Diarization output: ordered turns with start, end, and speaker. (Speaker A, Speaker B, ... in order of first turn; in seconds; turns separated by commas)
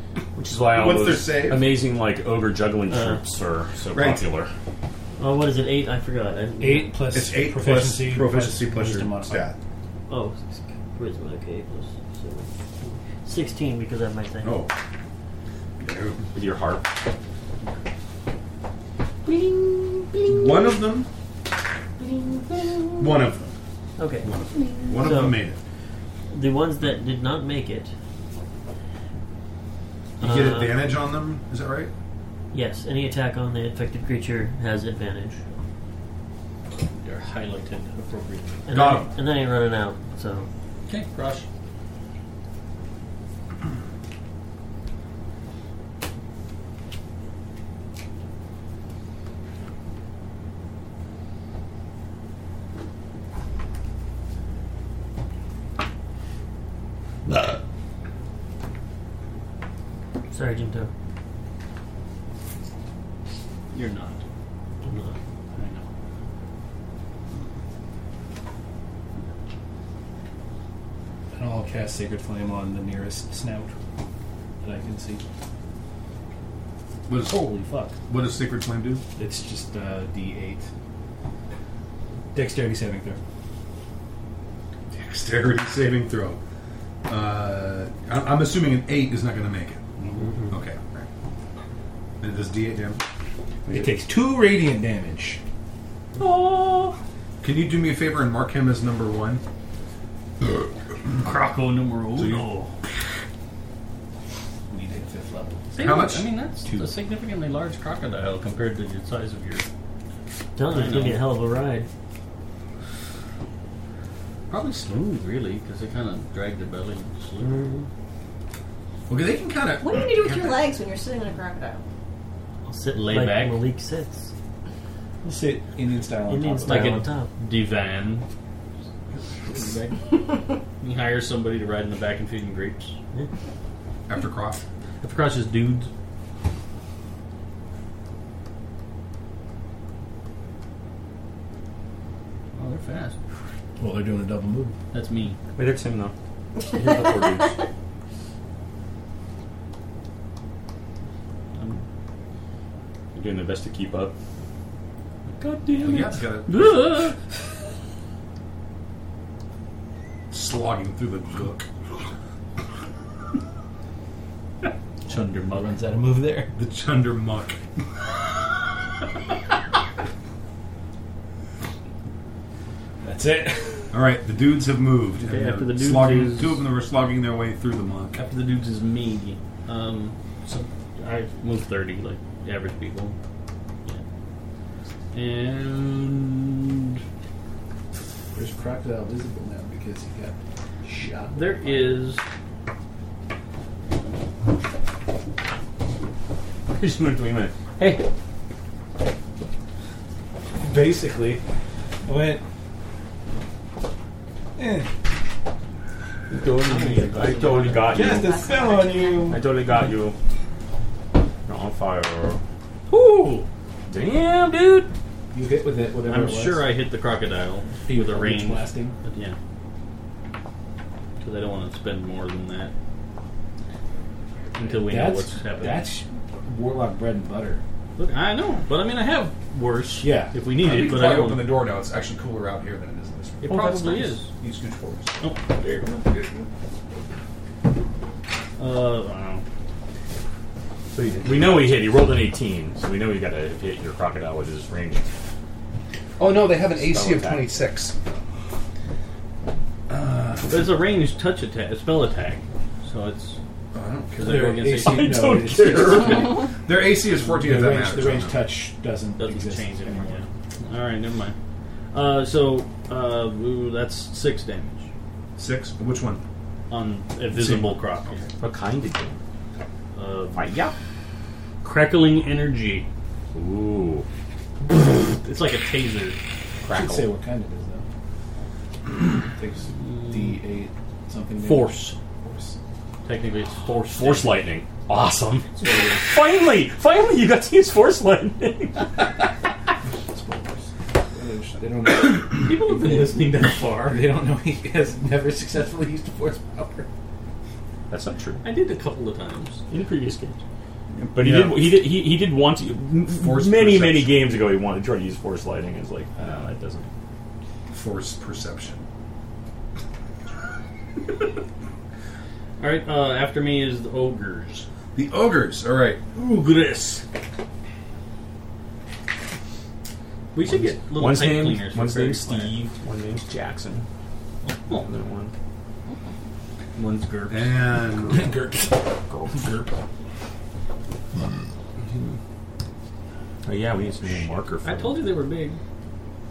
Speaker A: 0.3-4.5, Speaker B: 0.7-1.7, Speaker C: 2.9-3.2, Speaker B: 3.9-4.2, Speaker C: 5.2-7.0, Speaker D: 6.6-9.5, Speaker B: 7.1-9.6, Speaker C: 10.1-12.5, Speaker C: 13.2-14.6, Speaker B: 14.4-14.7, Speaker B: 15.8-16.2, Speaker A: 16.3-16.9, Speaker C: 19.3-20.2, Speaker B: 20.2-21.1, Speaker B: 23.0-23.5, Speaker C: 24.0-24.3, Speaker B: 24.2-25.6, Speaker E: 24.5-25.0, Speaker C: 24.9-25.4, Speaker C: 26.3-27.9, Speaker C: 30.2-30.9, Speaker B: 30.2-31.9, Speaker C: 32.5-35.4, Speaker F: 37.0-38.7, Speaker C: 38.6-40.5, Speaker B: 38.7-39.1, Speaker F: 40.9-41.5, Speaker C: 60.3-60.9, Speaker F: 63.7-64.2, Speaker C: 64.8-65.2, Speaker F: 65.5-65.9, Speaker D: 71.3-73.8, Speaker D: 74.6-75.2, Speaker B: 77.1-77.4, Speaker D: 77.2-78.0, Speaker B: 78.1-79.0, Speaker D: 79.2-80.7, Speaker D: 82.3-83.2, Speaker B: 84.9-86.4, Speaker B: 87.1-91.1, Speaker C: 90.2-90.5, Speaker B: 92.2-93.0, Speaker D: 93.7-95.4, Speaker F: 96.2-97.0, Speaker B: 97.4-99.4, Speaker F: 101.2-102.7, Speaker B: 102.2-102.5, Speaker D: 104.7-105.8, Speaker F: 105.7-109.7, Speaker B: 105.8-106.3, Speaker C: 110.5-111.9, Speaker F: 110.7-111.2, Speaker F: 114.5-117.6, Speaker C: 117.4-117.9, Speaker B: 119.1-120.7, Speaker E: 119.8-121.8, Speaker C: 122.7-124.3, Speaker F: 122.9-123.6, Speaker D: 125.2-127.0, Speaker C: 126.3-127.3, Speaker F: 126.6-128.2, Speaker F: 129.1-132.9, Speaker B: 134.1-134.6, Speaker F: 135.0-135.9, Speaker F: 142.5-143.2, Speaker D: 143.8-144.8, Speaker F: 144.9-145.4, Speaker A: 145.5-146.1, Speaker A: 146.7-147.5, Speaker F: 151.5-151.8, Speaker A: 153.1-154.1, Speaker F: 155.3-157.2, Speaker B: 155.8-157.1, Speaker B: 160.3-161.7, Speaker F: 165.1-165.8, Speaker D: 165.1-166.5, Speaker B: 166.5-167.6, Speaker D: 173.0-174.0, Speaker B: 173.9-178.2, Speaker F: 175.2-176.7, Speaker F: 178.1-183.2, Speaker F: 185.1-187.0, Speaker D: 188.3-192.1, Speaker F: 191.0-192.2, Speaker A: 196.7-198.0, Speaker D: 200.6-201.4, Speaker D: 202.1-202.4, Speaker D: 204.6-204.9, Speaker A: 206.3-208.5, Speaker C: 206.6-208.1, Speaker D: 207.9-209.4, Speaker E: 208.0-209.4, Speaker A: 209.3-210.2, Speaker A: 211.4-212.4, Speaker F: 212.9-213.5, Speaker A: 213.9-214.9, Speaker D: 215.3-216.8, Speaker F: 216.0-219.4, Speaker D: 217.8-219.0, Speaker F: 221.2-222.7, Speaker F: 224.5-225.9, Speaker D: 224.7-227.6, Speaker F: 228.0-231.6, Speaker D: 230.0-230.4, Speaker B: 230.6-233.5, Speaker F: 233.4-234.3, Speaker C: 233.5-234.1, Speaker B: 234.3-235.3, Speaker F: 235.2-236.4, Speaker F: 238.6-239.4, Speaker A: 240.9-245.1, Speaker B: 241.2-241.6, Speaker B: 246.2-247.9, Speaker A: 246.8-247.5, Speaker B: 249.9-250.7, Speaker F: 250.4-253.4, Speaker B: 253.7-254.4, Speaker F: 254.1-255.1, Speaker D: 254.1-256.5, Speaker A: 254.8-256.5, Speaker B: 256.6-258.3, Speaker D: 257.2-260.2, Speaker F: 259.2-261.3, Speaker F: 261.9-264.9, Speaker B: 265.4-266.2, Speaker F: 266.7-268.3, Speaker B: 267.3-268.2, Speaker A: 268.4-269.2, Speaker F: 269.9-270.5, Speaker A: 270.3-270.7, Speaker F: 271.6-272.9, Speaker A: 273.3-274.1, Speaker F: 274.7-276.2, Speaker D: 276.6-277.8, Speaker A: 276.6-277.1, Speaker D: 279.2-282.6, Speaker F: 280.0-280.3, Speaker F: 281.4-282.0, Speaker F: 283.0-284.5, Speaker A: 283.9-289.0, Speaker D: 289.9-296.9, Speaker F: 292.3-294.0, Speaker A: 297.9-298.4, Speaker F: 298.4-299.6, Speaker A: 299.7-300.4, Speaker B: 301.0-301.7, Speaker A: 301.1-306.9, Speaker B: 303.1-304.2, Speaker B: 307.7-308.8, Speaker F: 312.6-314.7, Speaker B: 314.9-316.0, Speaker F: 316.1-317.0, Speaker F: 320.3-322.6, Speaker A: 320.5-323.9, Speaker F: 324.4-324.9, Speaker A: 324.7-325.3, Speaker F: 326.8-327.7, Speaker B: 327.3-328.3, Speaker D: 328.1-328.8, Speaker A: 329.1-329.6, Speaker A: 333.4-335.0, Speaker F: 334.6-335.6